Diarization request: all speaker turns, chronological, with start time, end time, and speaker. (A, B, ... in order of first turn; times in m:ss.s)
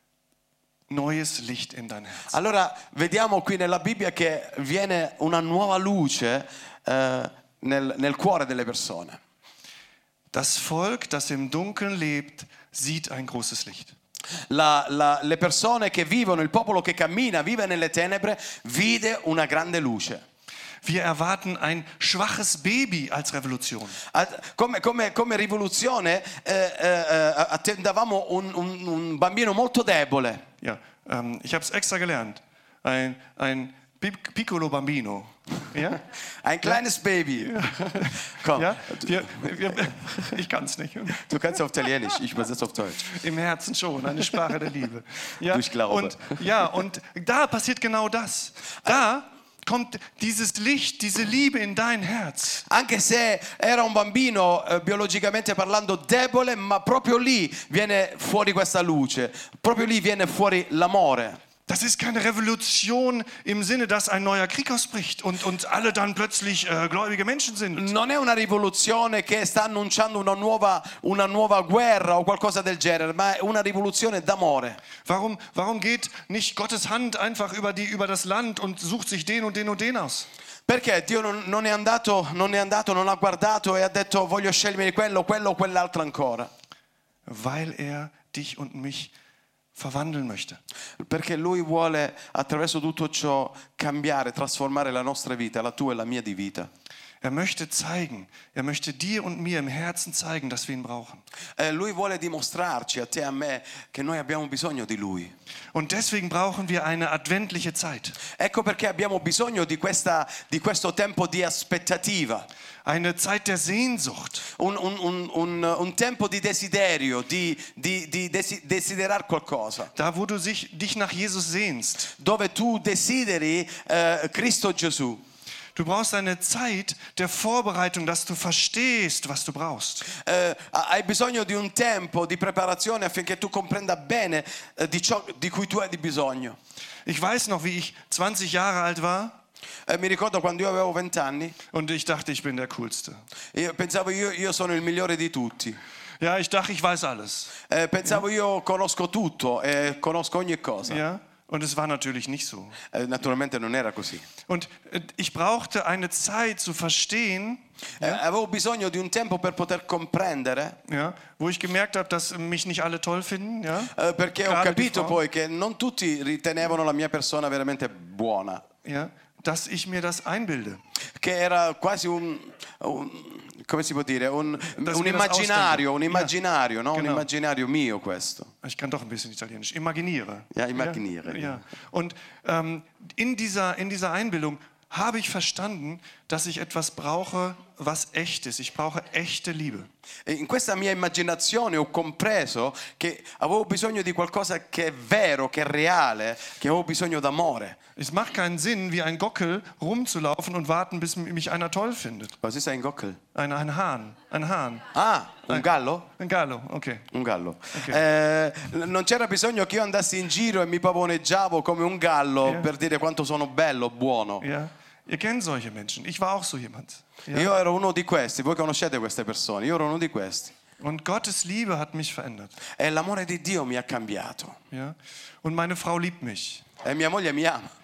0:00.9-0:02.3 A
0:02.3-0:09.2 B
0:10.3-0:13.9 A
0:14.5-0:20.2 B
0:20.8-0:24.0 A
0:24.1-0:30.4 B
0:30.6-0:36.0 A
0:36.4-0:39.2 B
0:37.4-0:41.3 A
0:41.2-0:43.1 B
0:43.1-0:52.6 A
0:45.5-0:46.4 B
0:52.7-1:01.4 B
1:01.7-1:07.9 A
1:07.7-1:14.8 B
1:15.0-1:20.3 A
1:20.7-1:26.5 B
1:27.2-1:29.1 A
1:29.8-1:30.6 A
1:31.0-1:36.7 B
1:37.2-1:41.2 A
1:41.6-1:45.3 B
1:45.7-1:48.2 A
1:48.3-1:52.5 B
1:52.8-1:54.5 A
1:54.6-1:59.9 B
2:00.0-2:02.1 A
2:02.1-2:05.2 B
2:05.7-2:10.1 A
2:10.1-2:16.6 B
2:17.0-2:19.4 A
2:19.9-2:21.6 B
2:21.7-2:23.2 A
2:23.5-2:25.8 B
2:26.2-2:27.5 A
2:27.7-2:31.0 B
2:30.9-2:32.8 A
2:32.9-2:34.3 B
2:34.5-2:38.2 A
2:38.0-2:40.8 B
2:40.9-2:43.9 A
2:43.9-2:48.6 B
2:44.4-2:45.2 A
2:48.8-2:50.8 A
2:51.2-2:58.5 B
2:54.8-2:56.3 A
2:56.9-2:57.2 A
2:58.6-3:09.9 A
3:00.5-3:01.6 B
3:10.2-3:17.8 B
3:18.0-3:22.3 A
3:22.4-3:23.2 B
3:23.3-3:24.9 A
3:24.9-3:26.1 B
3:26.2-3:27.1 A
3:27.1-3:34.4 B
3:27.7-3:28.0 A
3:34.4-3:37.5 A
3:37.3-3:40.5 B
3:40.8-3:42.6 A
3:42.8-3:44.6 B
3:44.7-3:46.6 A
3:46.8-3:47.7 B